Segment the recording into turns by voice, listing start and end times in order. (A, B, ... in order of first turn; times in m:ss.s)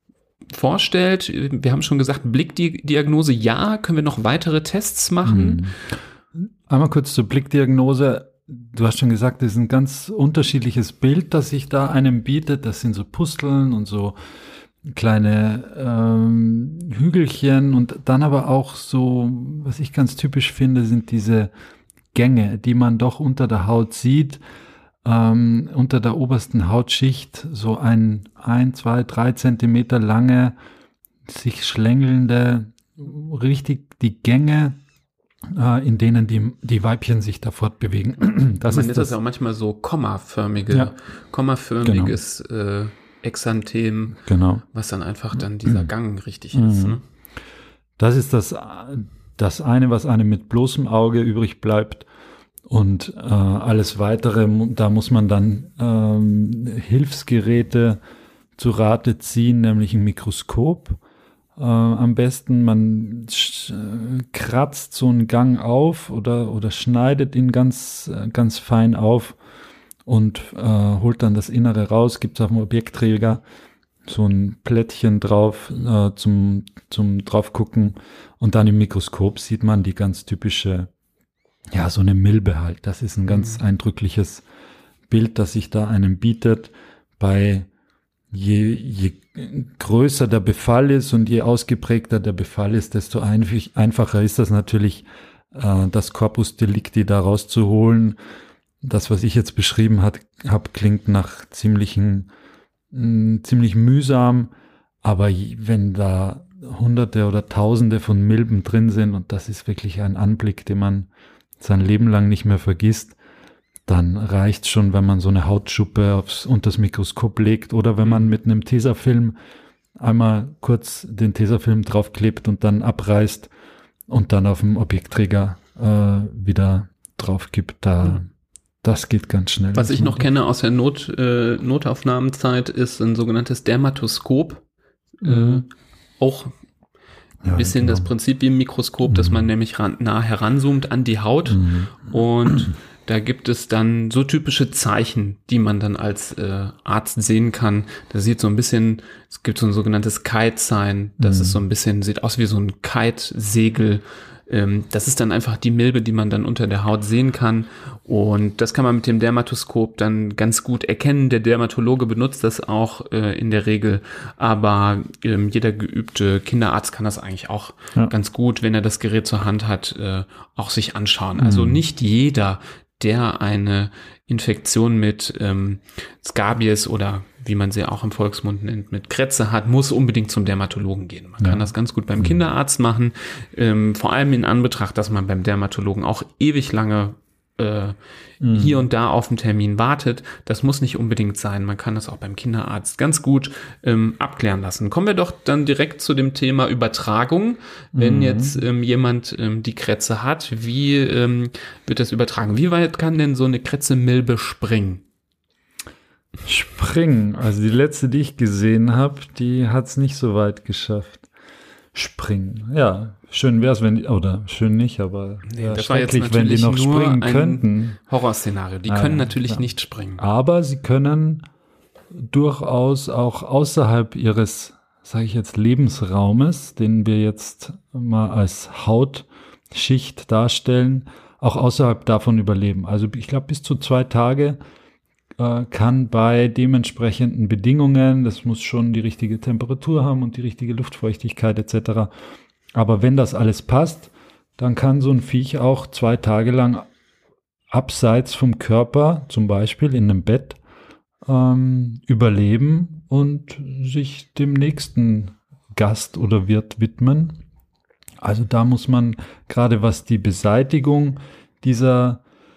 0:00.5-0:05.6 A
0:05.2-0:05.8 B
0:06.3-0:14.2 B
0:14.8-0:21.5 B
0:22.1-0:24.4 B
0:25.0-0:30.6 B
0:31.3-0:34.8 B
0:35.4-0:39.1 B
0:38.7-0:44.2 A
0:41.8-0:42.2 B
0:44.1-0:44.6 B
0:44.7-0:47.0 A
0:45.4-0:45.9 B
0:46.5-0:47.0 B
0:48.0-0:52.1 B
0:52.7-0:58.0 B
0:58.6-1:01.0 B
1:01.6-1:09.4 B
1:10.1-1:13.4 B
1:14.1-1:20.9 B
1:21.7-1:24.4 B
1:23.3-1:23.6 A
1:25.1-1:27.7 B
1:28.3-1:38.2 B
1:38.8-1:42.3 B
1:42.9-1:44.5 B
1:45.0-1:51.1 B
1:51.6-1:53.2 B
1:53.9-1:59.4 B
2:00.0-2:03.5 B
2:04.1-2:08.3 B
2:08.8-2:10.3 B
2:09.7-2:14.6 A
2:15.2-2:15.7 A
2:15.2-2:15.6 B
2:16.2-2:16.5 A
2:17.4-2:18.1 B
2:17.5-3:08.0 A
2:19.1-2:19.5 B
2:21.5-2:21.9 B
2:31.2-2:31.6 B
2:51.4-2:51.8 B
3:08.4-3:08.8 B
3:08.5-3:25.0 A
3:18.0-3:18.7 B
3:26.4-3:31.3 B
3:31.9-3:38.0 B
3:35.5-3:40.2 A
3:38.9-3:39.6 B
3:40.2-3:41.4 B
3:42.2-3:54.6 B
3:55.4-4:02.1 B
4:02.8-4:06.8 B
4:07.7-4:10.6 B
4:11.2-4:17.4 B
4:18.2-4:22.2 B